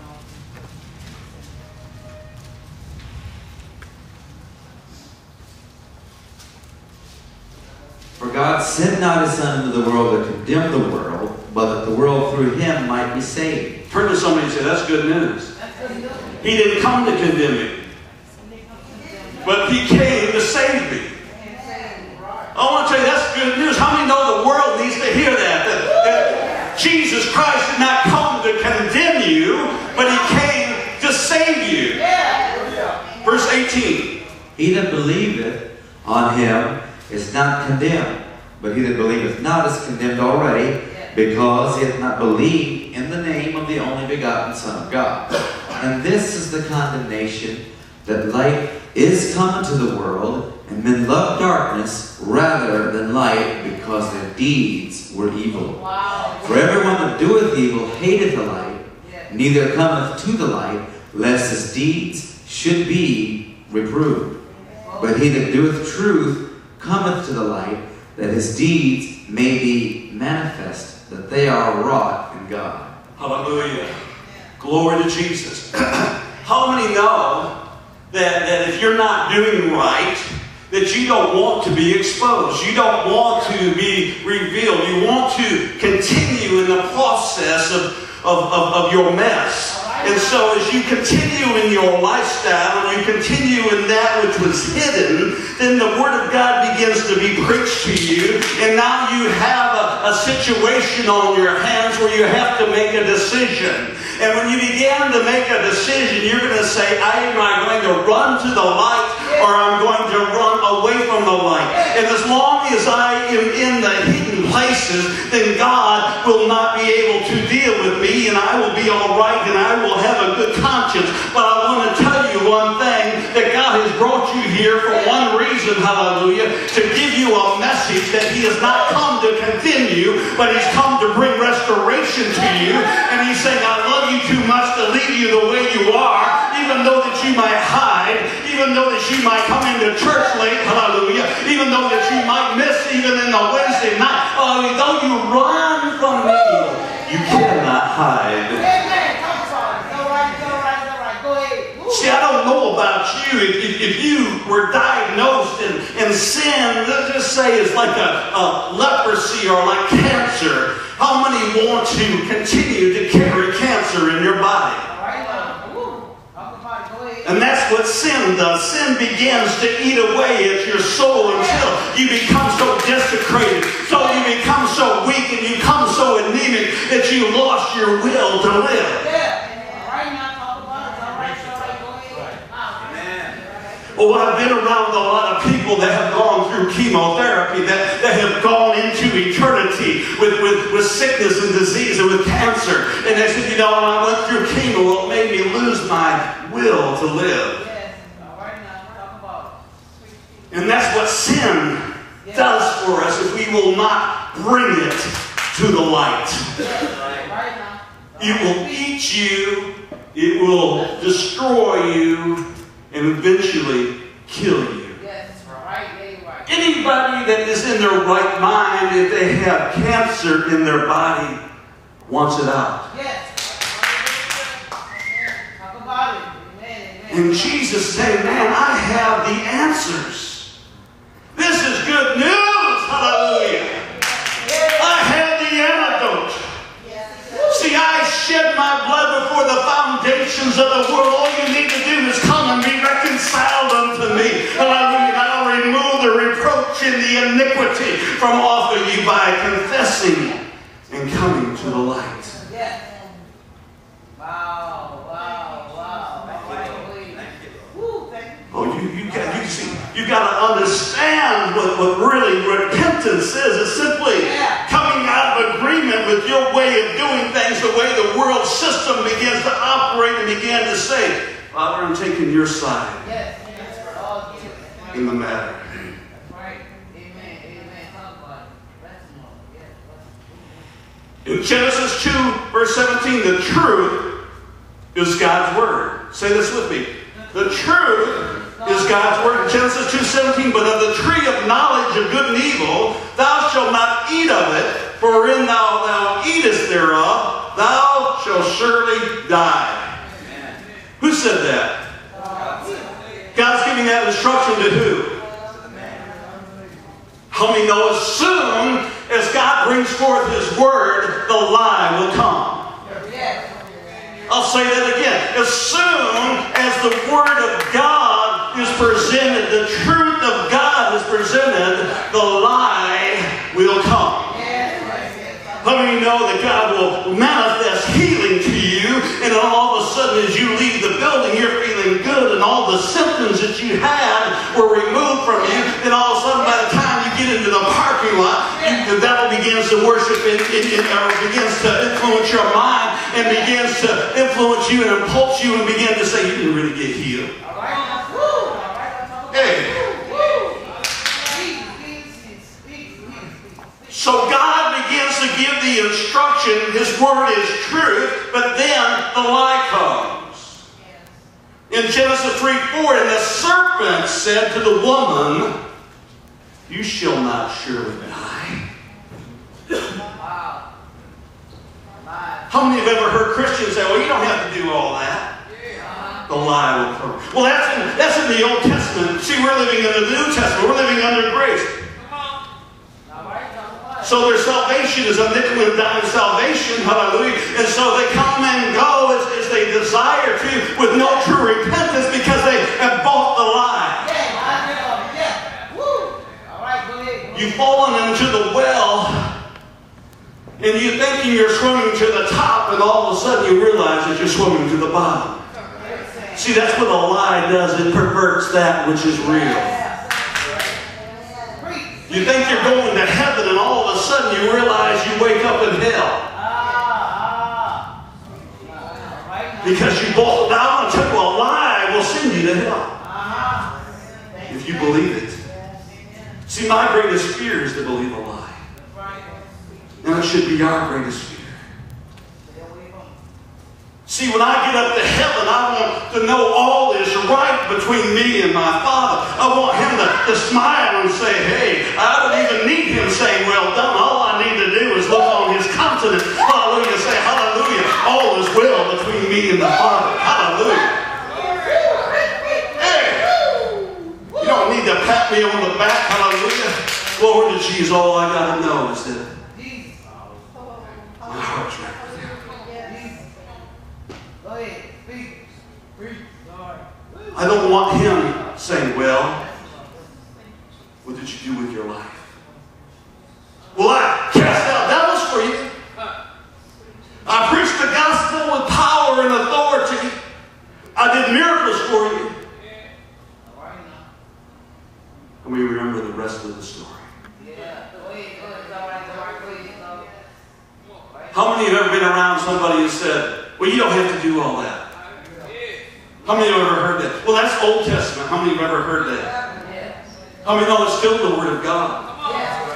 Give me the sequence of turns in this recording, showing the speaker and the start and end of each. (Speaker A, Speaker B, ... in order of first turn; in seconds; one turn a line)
Speaker A: 8.2-13.8
Speaker B: 13.9-15.5
Speaker C: 15.6-16.4
Speaker B: 16.4-17.8
Speaker B: 19.4-21.2
Speaker C: 21.3-22.2
Speaker B: 22.5-32.0
Speaker C: 32.0-32.7
Speaker B: 33.2-34.2
Speaker A: 34.6-55.8
Speaker C: 55.8-56.7
Speaker A: 56.4-64.4
Speaker C: 64.8-65.1
Speaker A: 65.0-72.9
Speaker B: 73.2-73.9
Speaker B: 74.6-77.5
Speaker B: 78.1-148.6
Speaker C: 89.7-90.5
Speaker C: 148.6-152.1
Speaker B: 151.9-164.9
Speaker C: 164.9-167.4
Speaker B: 167.2-179.1
Speaker C: 179.0-183.4
Speaker B: 183.9-197.6
Speaker C: 197.6-199.6
Speaker B: 200.5-206.7
Speaker C: 206.6-208.7
Speaker B: 208.2-215.0
Speaker C: 215.0-216.5
Speaker B: 216.5-221.4
Speaker B: 222.1-222.9
Speaker C: 222.9-223.5
Speaker C: 225.3-227.5
Speaker B: 227.1-230.5
Speaker B: 231.3-233.8
Speaker C: 234.4-235.0
Speaker B: 234.8-236.5
Speaker B: 237.4-252.4
Speaker C: 252.5-253.0
Speaker C: 254.2-258.5
Speaker B: 258.5-273.1
Speaker C: 264.1-264.6
Speaker C: 273.0-275.1
Speaker B: 274.9-275.9
Speaker C: 276.1-280.6
Speaker B: 281.2-284.2
Speaker B: 284.9-299.9
Speaker C: 288.6-289.5
Speaker B: 301.0-301.8
Speaker C: 302.1-302.9
Speaker B: 303.3-305.2
Speaker B: 307.3-312.7
Speaker C: 312.9-313.6
Speaker B: 314.3-324.4
Speaker C: 324.3-325.5
Speaker B: 325.6-347.3
Speaker C: 338.6-338.8
Speaker C: 347.4-353.9
Speaker B: 349.3-349.9
Speaker B: 353.9-360.6
Speaker B: 361.7-365.6
Speaker B: 366.7-368.6
Speaker C: 370.1-370.6
Speaker C: 372.1-372.4
Speaker B: 372.5-375.3
Speaker C: 375.7-376.2
Speaker B: 376.3-381.7
Speaker C: 383.1-384.2
Speaker B: 384.0-394.1
Speaker C: 394.0-397.5
Speaker B: 397.3-399.3
Speaker B: 400.6-405.4
Speaker C: 405.8-406.4
Speaker B: 406.3-409.8
Speaker C: 409.4-410.3
Speaker C: 411.4-412.7
Speaker B: 412.1-416.2
Speaker C: 416.3-417.9
Speaker C: 418.6-420.0
Speaker B: 419.6-422.9
Speaker C: 423.0-426.2
Speaker B: 424.5-425.4
Speaker B: 426.5-428.6
Speaker C: 428.8-429.8
Speaker B: 430.0-431.6
Speaker C: 432.4-433.1
Speaker B: 434.1-451.0
Speaker C: 451.4-452.8
Speaker B: 452.8-453.3
Speaker C: 453.4-454.0
Speaker B: 454.4-459.3
Speaker C: 459.5-460.0
Speaker B: 461.2-462.4
Speaker C: 462.7-463.3
Speaker C: 464.4-467.3
Speaker B: 467.3-469.4
Speaker C: 469.4-470.2
Speaker B: 471.0-472.3
Speaker B: 473.7-475.7
Speaker B: 477.2-480.2
Speaker B: 480.9-482.4
Speaker C: 483.4-484.1
Speaker B: 485.4-487.1
Speaker C: 487.4-490.2
Speaker B: 491.3-494.9
Speaker B: 496.2-499.3
Speaker C: 499.4-500.0
Speaker B: 500.4-502.1
Speaker C: 502.2-502.6